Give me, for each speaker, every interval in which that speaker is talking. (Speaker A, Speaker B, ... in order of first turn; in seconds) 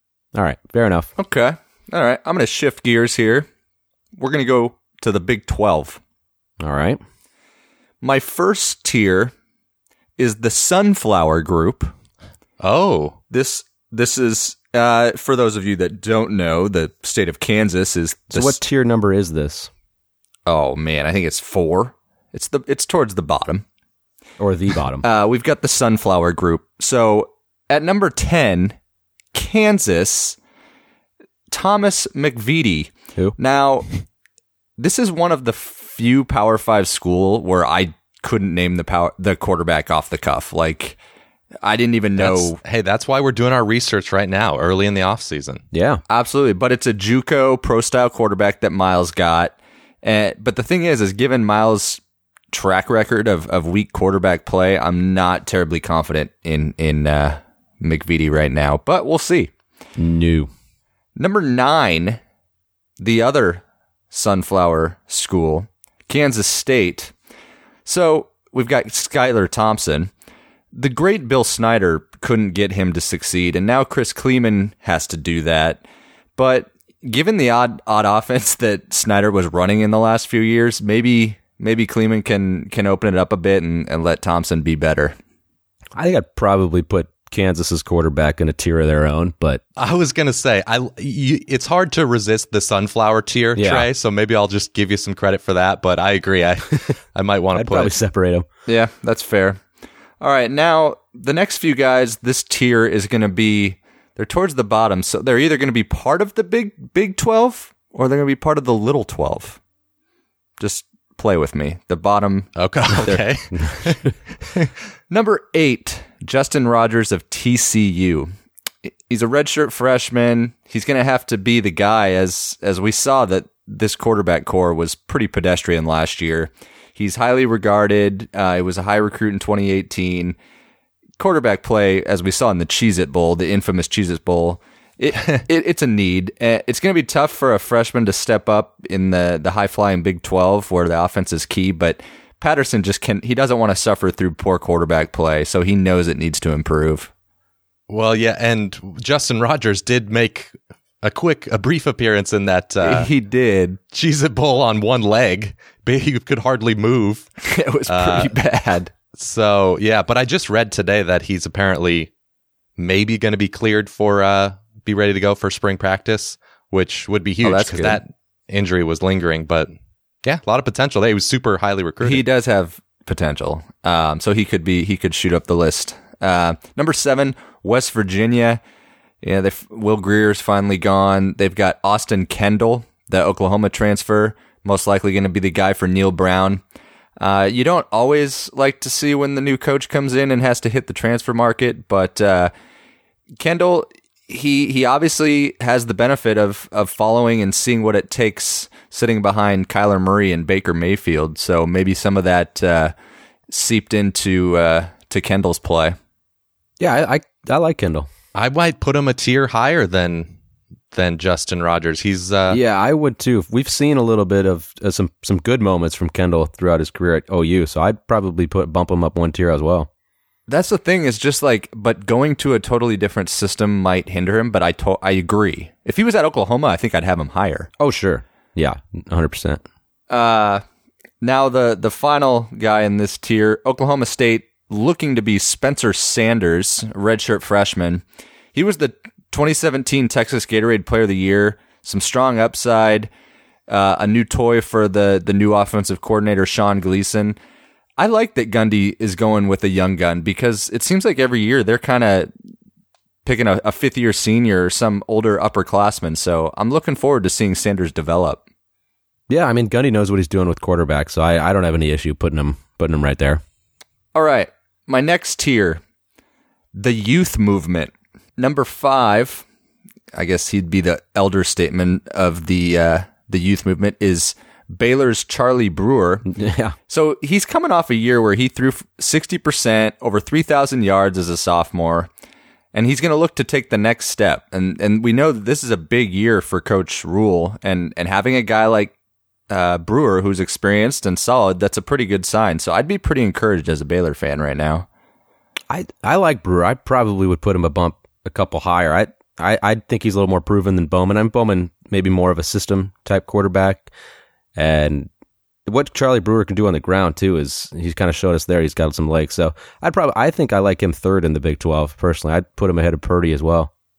Speaker A: 0.3-1.1, 6.6-7.0, 18.3-19.7, 24.4-25.1, 45.7-46.0, 60.0-60.5, 86.0-89.6, 93.6-93.9, 97.6-98.5, 113.0-114.1, 206.8-208.1, 212.5-219.9, 227.8-229.6, 259.3-263.4, 276.3-276.8, 295.7-303.9, 304.6-305.1, 305.6-313.7
Speaker B: 1.2-3.5, 4.2-6.0, 8.0-9.3, 10.2-11.9, 13.3-18.6, 20.5-23.6, 25.0-28.8, 29.3-30.4, 31.5-33.9, 34.8-41.0, 41.6-42.6, 46.1-59.5, 61.2-62.2, 63.0-67.1, 67.8-70.1, 70.7-75.8, 76.4-85.2, 98.7-99.6, 100.2-109.6, 110.6-112.5, 115.1-118.3, 118.9-130.4, 131.2-147.1, 152.8-153.8, 157.4-158.9, 167.4-168.0, 172.0-178.6, 179.2-186.6, 187.2-192.5, 193.3-202.9, 203.5-206.0, 220.5-227.7, 230.1-230.6, 231.2-243.1, 243.7-247.4, 248.0-252.3, 253.2-258.4, 264.1-265.8, 266.7-269.4, 270.1-276.2, 276.9-282.1, 282.7-288.9, 289.5-294.9
Speaker C: 12.6-13.2, 42.2-45.6, 89.8-98.0, 112.6-114.0, 147.9-153.1, 153.9-157.3, 157.9-158.3, 159.1-162.1, 162.8-169.7, 170.2-172.2, 208.3-210.3, 210.9-212.6